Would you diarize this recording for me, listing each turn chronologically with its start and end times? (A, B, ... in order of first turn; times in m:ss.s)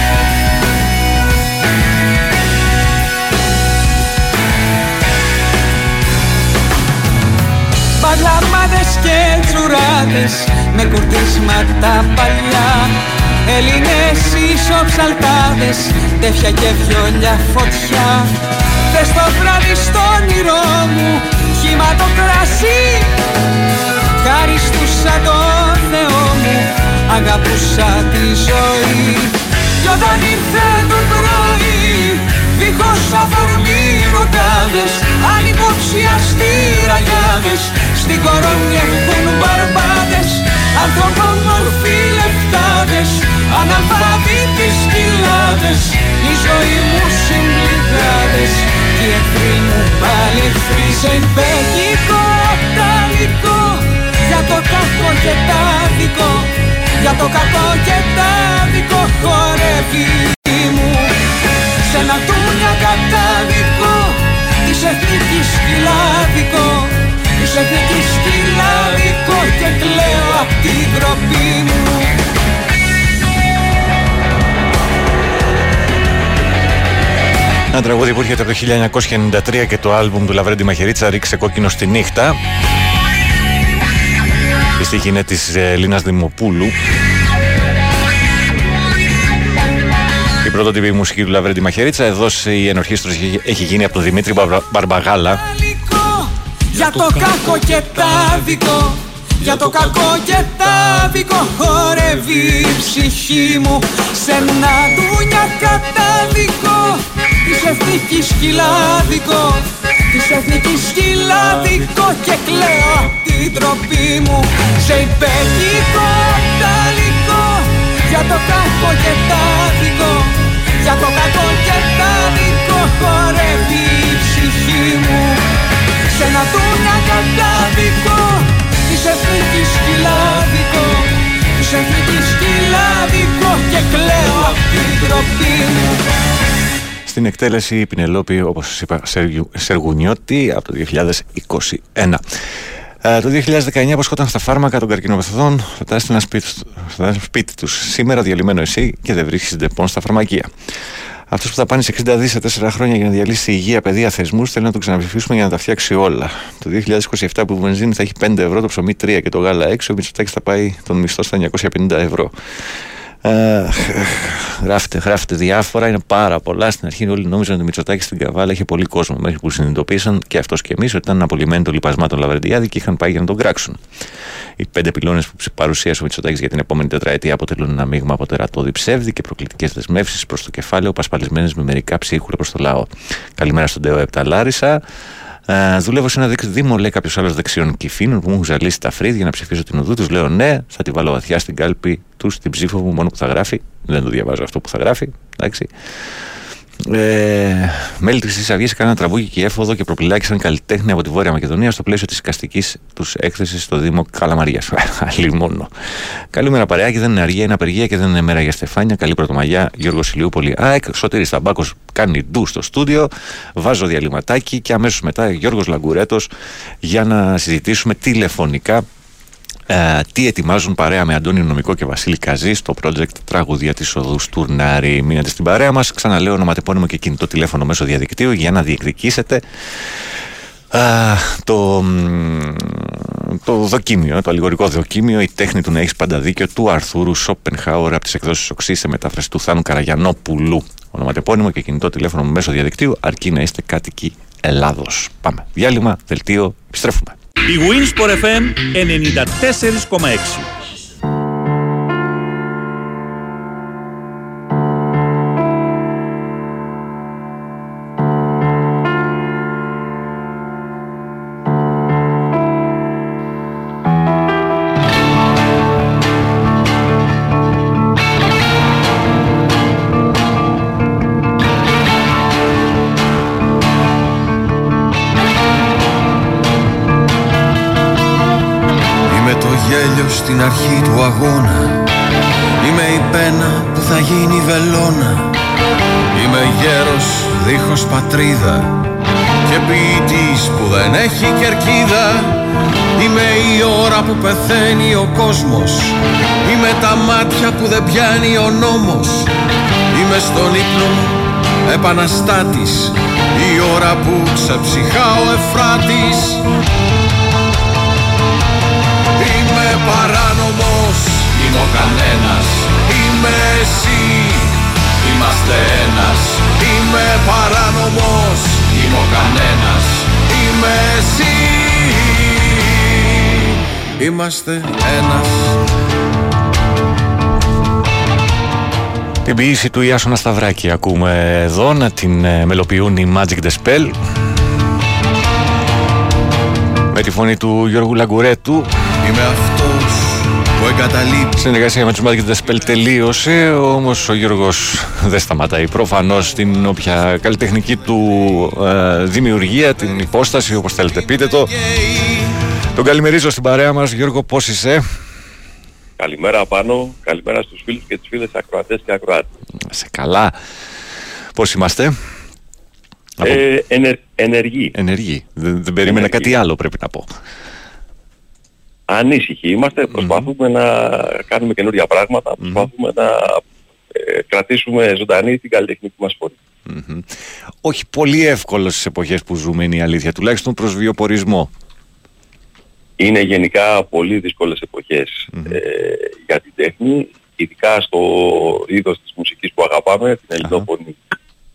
0:08.0-0:18.3 A
0:18.9-0:23.1 A
0:24.2-1:01.1 A
1:01.8-1:12.2 A
1:17.7-1:22.4 B
1:24.8-1:26.8 B
1:30.4-1:35.4 B
1:35.4-2:05.4 A
2:06.1-2:16.0 A
2:17.0-2:22.2 B
2:23.0-2:30.5 B
2:31.3-2:53.8 B
2:54.6-3:04.8 B
3:05.5-3:16.2 B
3:16.8-3:36.3 B
3:36.8-3:38.8 B
3:39.7-3:50.0 B
3:50.7-4:07.2 B
4:07.4-4:10.5 C
4:39.1-4:41.8 D
4:42.6-4:45.3 D
4:46.1-4:48.7 D
4:49.4-4:52.4 D
4:53.0-4:59.3 D
4:59.9-5:06.4 D
5:09.2-5:23.3 D
5:24.0-5:25.6 D
5:29.2-5:34.0 B
5:36.9-5:38.7 B
5:39.0-5:41.5 D
5:41.4-5:51.5 B
5:51.0-5:52.1 D
5:52.7-5:54.8 B
5:56.0-5:59.3 E
5:59.6-6:00.4 B
6:01.3-6:02.0 B
6:03.2-6:03.4 B
6:03.2-6:04.7 E
6:04.7-6:07.1 B
6:05.8-6:06.3 E
6:08.9-6:13.4 E
6:09.9-6:10.3 B
6:12.4-6:12.7 B
6:13.9-6:16.4 E
6:16.6-6:17.1 B
6:17.6-6:21.5 B
6:23.0-6:31.0 E
6:25.3-6:25.6 B
6:30.4-6:30.7 B